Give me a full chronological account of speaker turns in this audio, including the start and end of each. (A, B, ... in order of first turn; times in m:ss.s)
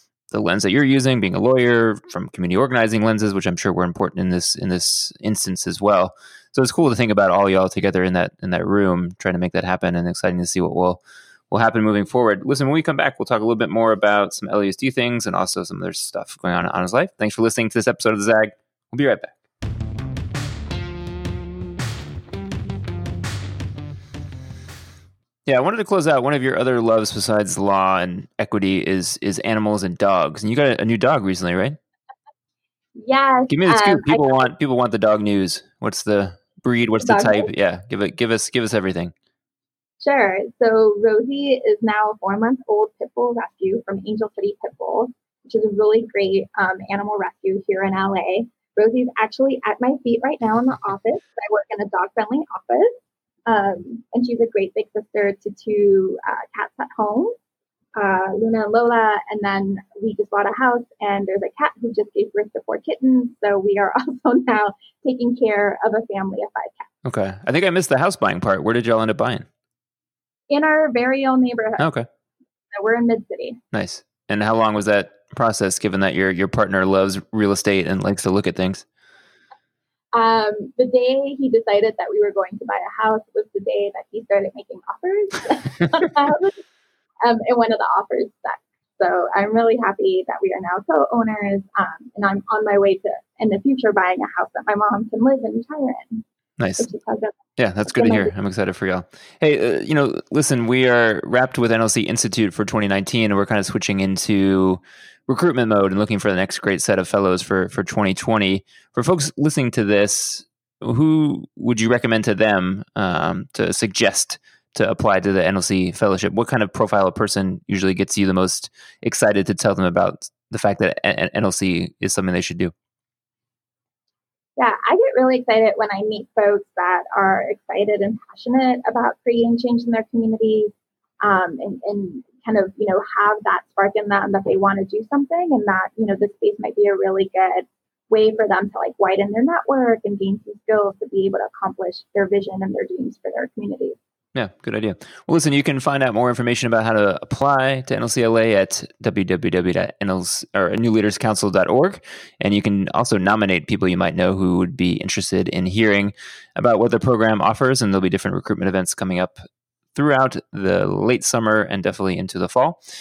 0:00.3-0:19.4 A
0:25.5-0:31.8 A
0:33.0-0:34.5 B
0:33.5-0:39.1 A
0:37.0-0:37.5 B
0:40.0-0:52.9 B
0:53.5-0:57.3 B
0:58.0-1:06.9 B
1:07.0-1:09.5 A
1:10.5-1:11.9 B
1:11.8-1:12.1 A
1:12.7-1:13.6 B
1:13.7-1:18.8 A
1:20.1-1:26.6 B
1:27.2-1:36.2 B
1:36.6-1:36.9 A
1:36.8-1:38.3 B
1:37.6-2:02.7 A
2:04.6-2:24.0 B
2:24.4-2:39.4 A
2:39.9-2:42.8 A